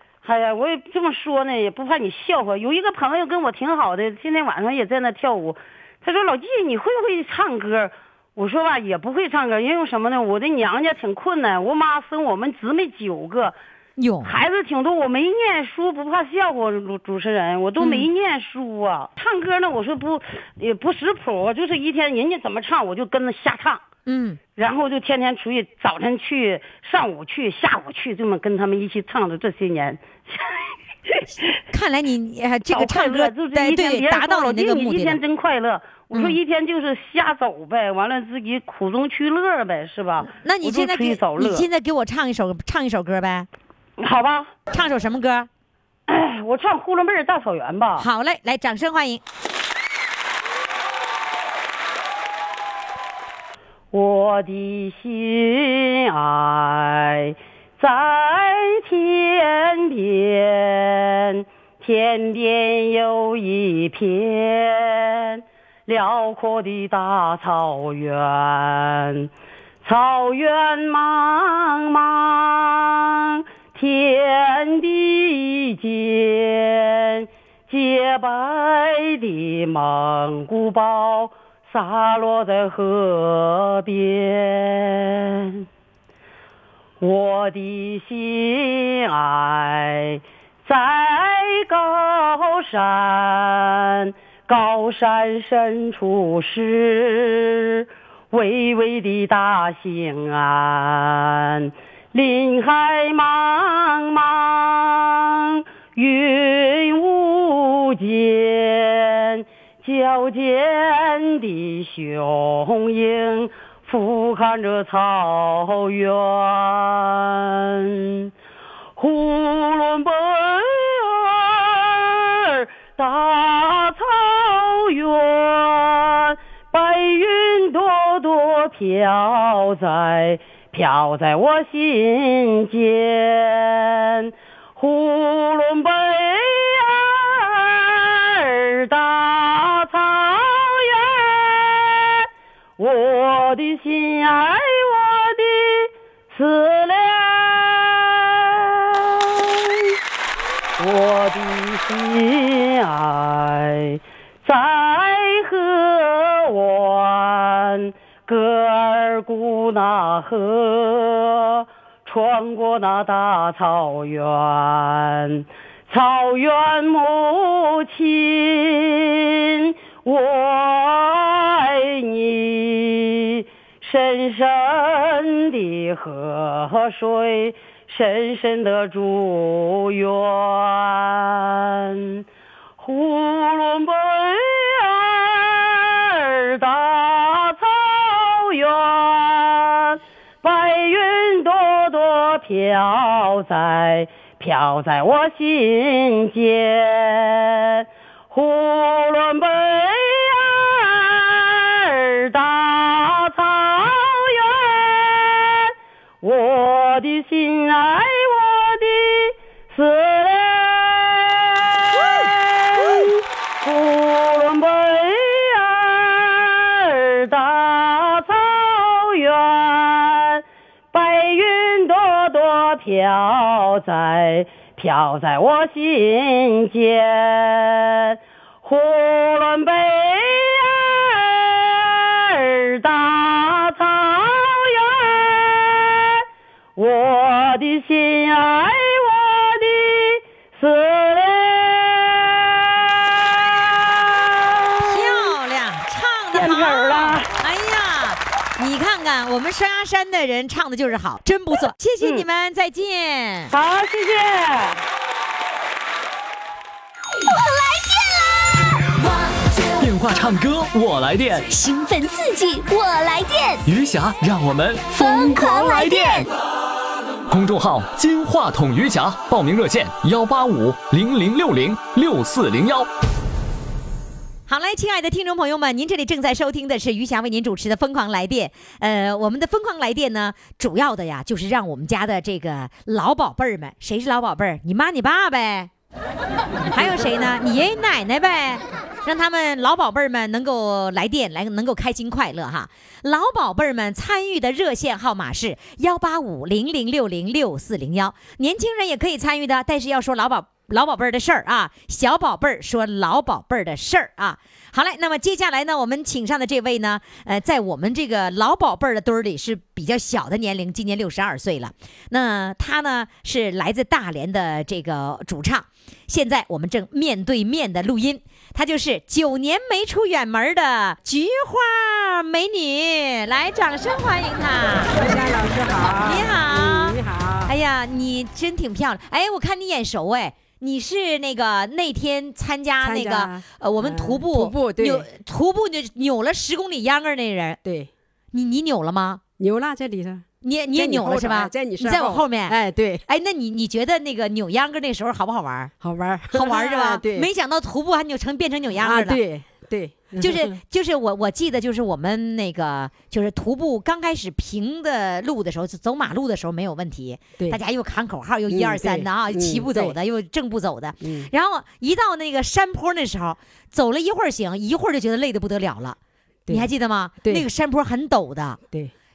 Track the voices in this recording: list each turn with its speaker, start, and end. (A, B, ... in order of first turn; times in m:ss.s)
0:00.2-0:13.5 A
0:14.0-0:14.3 B
0:14.2-0:23.8 A
0:17.8-0:18.1 B
0:24.0-0:24.4 B
0:24.6-0:31.2 A
0:31.2-0:35.2 B
0:32.7-0:41.7 A
0:40.2-0:43.5 B
0:44.0-0:44.5 A
0:44.7-0:45.5 B
0:46.1-0:48.0 A
0:48.0-0:49.2 B
0:53.9-1:09.3 A
1:09.8-1:25.6 A
1:27.0-1:58.3 A
1:59.0-2:22.2 A
2:22.8-2:29.9 A
2:30.8-3:02.2 A
3:02.8-3:56.2 A
3:31.9-3:33.1 B
3:56.8-4:05.3 A
4:04.8-4:13.5 B
4:06.3-4:07.3 A
4:13.5-4:14.8 A
4:17.2-4:19.0 C
4:19.8-4:21.5 D
4:21.5-4:23.6 C
4:23.6-4:26.3 D
4:24.9-4:26.3 C
4:27.3-4:32.9 D
4:34.5-4:45.7 B
4:46.5-4:47.1 E
4:46.7-5:25.0 B
5:24.9-5:27.5 E
5:26.0-5:37.6 B
5:32.8-5:35.1 E
5:37.6-5:37.9 E
5:38.3-5:39.2 B
5:39.4-5:43.0 E
5:40.4-5:45.7 B
5:45.8-5:47.3 E
5:46.3-5:49.2 B
5:48.8-5:50.6 E
5:50.2-6:06.0 B
5:58.5-5:59.9 E
6:01.0-6:01.3 E
6:06.5-6:08.6 B